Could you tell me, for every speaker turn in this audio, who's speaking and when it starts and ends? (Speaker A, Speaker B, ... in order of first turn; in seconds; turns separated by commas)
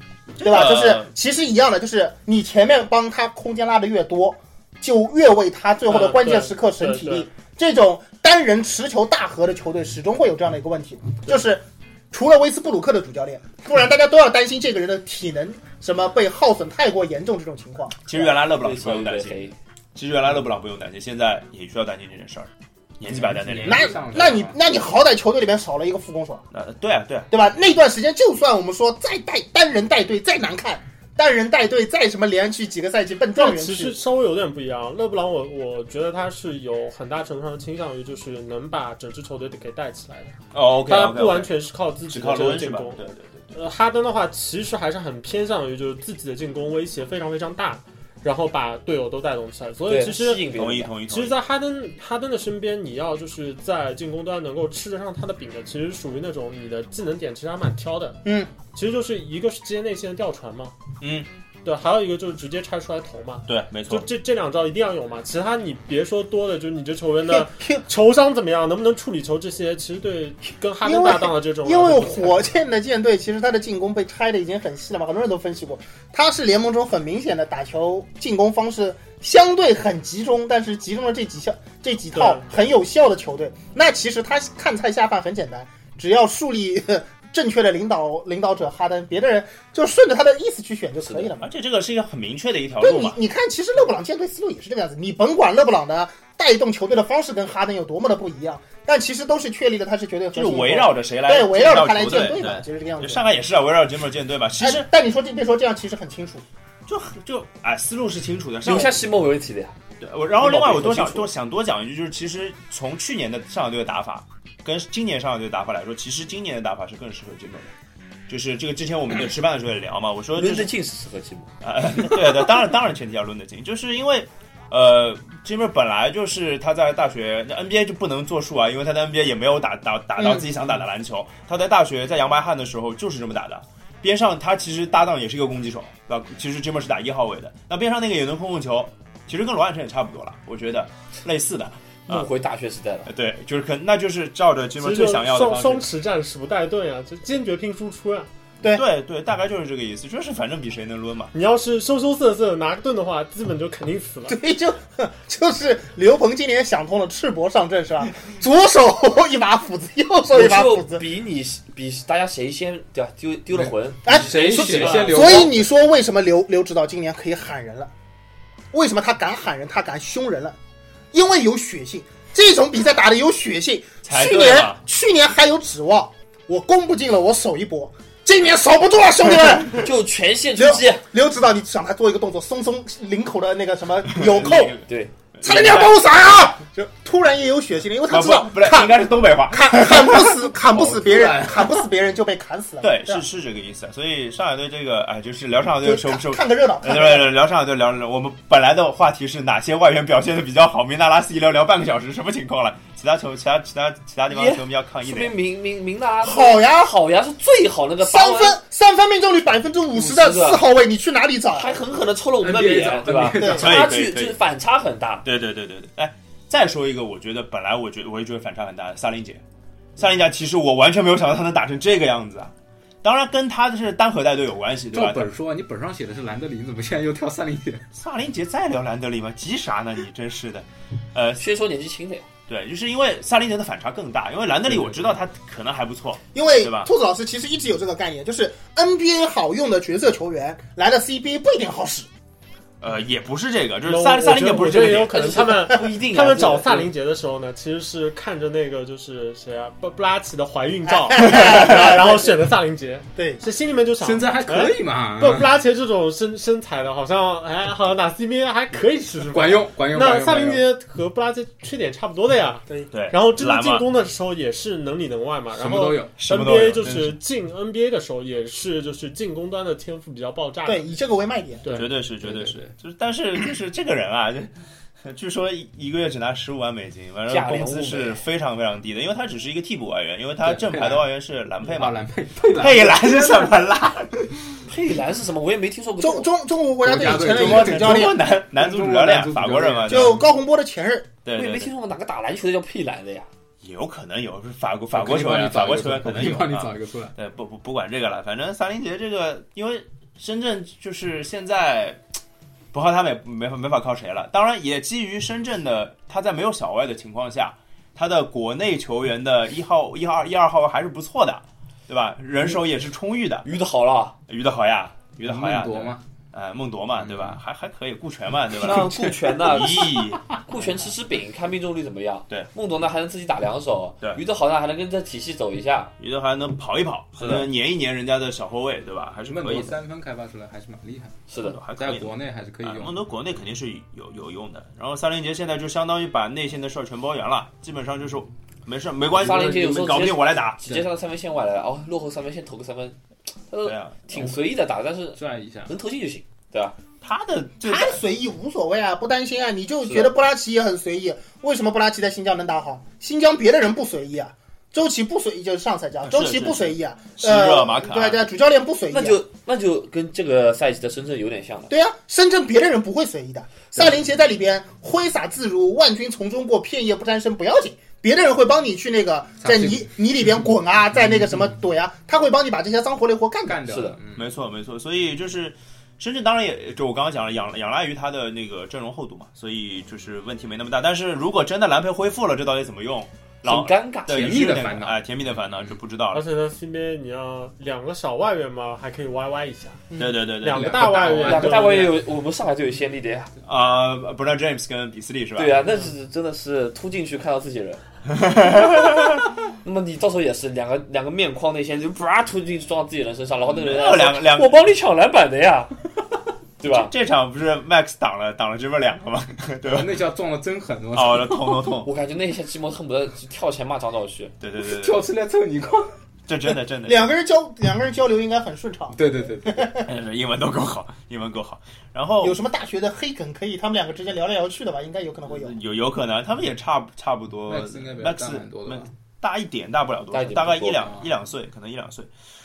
Speaker A: 0.3-1.1, Speaker B: 0.4-18.3, Speaker C: 5.9-7.3, Speaker A: 18.1-23.9, Speaker D: 18.4-19.5, Speaker E: 23.1-24.7, Speaker B: 23.6-26.4, Speaker A: 26.5-27.3, Speaker B: 27.3-34.0, Speaker C: 33.3-43.0, Speaker A: 40.5-41.5, Speaker A: 42.1-43.5, Speaker C: 43.5-50.5, Speaker D: 49.9-50.9, Speaker A: 50.5-51.4, Speaker C: 51.1-58.2, Speaker B: 58.2-58.5, Speaker C: 58.7-60.8, Speaker A: 61.0-61.3, Speaker C: 61.6-72.5, Speaker A: 63.5-64.1, Speaker B: 67.3-67.8, Speaker B: 70.8-91.5, Speaker C: 82.1-82.4, Speaker D: 91.0-91.3, Speaker A: 91.4-93.2, Speaker B: 92.8-103.2, Speaker A: 100.3-104.8, Speaker B: 104.6-106.4, Speaker A: 106.9-109.0, Speaker D: 108.6-109.7, Speaker A: 110.0-117.7, Speaker D: 110.4-111.3, Speaker A: 118.3-120.7, Speaker D: 120.3-121.5, Speaker A: 121.6-142.3, Speaker B: 130.2-130.4, Speaker D: 142.1-143.1, Speaker A: 143.1-145.9, Speaker C: 144.8-148.3, Speaker A: 148.6-151.3, Speaker C: 151.3-154.4, Speaker B: 154.3-161.0, Speaker D: 160.3-165.5, Speaker E: 163.5-165.5, Speaker B: 164.0-167.9, Speaker C: 164.8-165.1, Speaker B: 168.7-170.6, Speaker B: 171.1-179.9, Speaker A: 174.0-174.8, Speaker D: 179.8-181.0, Speaker B: 180.6-184.8, Speaker A: 184.1-186.0, Speaker D: 184.9-185.1, Speaker B: 185.4-193.2, Speaker A: 188.1-190.4, Speaker E: 190.7-191.7, Speaker A: 192.8-205.3, Speaker B: 195.8-197.3, Speaker D: 204.3-208.6, Speaker B: 206.2-206.9, Speaker B: 208.0-211.8, Speaker D: 209.9-210.6, Speaker D: 211.5-215.2, Speaker E: 212.4-213.9, Speaker A: 213.5-214.4, Speaker A: 215.2-219.4, Speaker A: 220.0-225.3, Speaker E: 224.9-227.9, Speaker A: 227.9-231.4, Speaker D: 231.4-232.2, Speaker A: 232.5-236.9, Speaker E: 234.7-235.2, Speaker B: 236.3-242.1, Speaker A: 242.8-245.4, Speaker C: 243.8-270.8, Speaker D: 244.9-246.9, Speaker B: 250.8-252.4, Speaker B: 253.2-253.4, Speaker E: 254.0-255.5, Speaker E: 259.3-260.6, Speaker A: 262.9-263.9, Speaker E: 265.5-266.2, Speaker A: 266.2-267.1, Speaker B: 270.6-271.7, Speaker C: 271.6-271.9, Speaker A: 271.7-274.5, Speaker E: 272.2-272.7, Speaker A: 275.0-282.0, Speaker D: 277.3-278.2, Speaker E: 280.4-281.1, Speaker E: 281.6-283.6, Speaker A: 282.5-284.6, Speaker D: 284.6-286.3, Speaker B: 286.0-288.2, Speaker E: 286.8-290.2, Speaker A: 287.2-290.2, Speaker B: 289.9-291.1, Speaker A: 291.2-291.7, Speaker D: 291.3-293.3, Speaker A: 293.6-302.0, Speaker E: 294.9-297.1, Speaker A: 302.7-313.4, Speaker D: 313.4-314.1, Speaker A: 314.3-320.2, Speaker E: 315.2-316.0, Speaker E: 317.0-317.4, Speaker D: 318.6-325.9, Speaker E: 320.3-320.9, Speaker A: 326.0-329.8, Speaker D: 327.2-327.5, Speaker E: 329.2-331.2, Speaker D: 331.3-331.6, Speaker A: 331.4-340.6, Speaker E: 331.7-333.0, Speaker D: 339.1-343.0, Speaker D: 343.5-346.8, Speaker A: 343.6-344.3, Speaker E: 345.1-345.7, Speaker A: 347.0-348.0, Speaker B: 347.6-359.2, Speaker D: 349.8-350.1, Speaker A: 356.1-358.2, Speaker D: 358.9-361.7, Speaker B: 361.7-373.6, Speaker E: 369.4-369.9, Speaker E: 371.0-371.5, Speaker E: 373.4-374.3, Speaker D: 373.7-374.0, Speaker A: 374.1-386.2, Speaker D: 383.4-384.6, Speaker E: 384.1-385.0, Speaker C: 386.1-389.8, Speaker B: 389.9-390.2, Speaker A: 390.0-391.4, Speaker C: 390.4-391.9, Speaker E: 390.5-391.9, Speaker D: 391.2-393.3, Speaker A: 393.4-395.6, Speaker D: 395.4-397.8, Speaker A: 398.1-399.2, Speaker D: 399.6-405.7, Speaker A: 403.5-404.6, Speaker D: 406.6-406.9, Speaker A: 406.7-410.0, Speaker E: 409.6-411.7, Speaker A: 410.9-411.9, Speaker D: 411.8-414.3, Speaker A: 414.4-415.0, Speaker E: 414.6-415.9, Speaker A: 416.3-417.1, Speaker B: 416.9-419.9, Speaker E: 418.9-419.8, Speaker A: 419.9-422.4, Speaker B: 422.2-425.6, Speaker A: 425.4-432.1, Speaker E: 427.5-428.9, Speaker D: 430.1-430.9, Speaker E: 430.8-431.1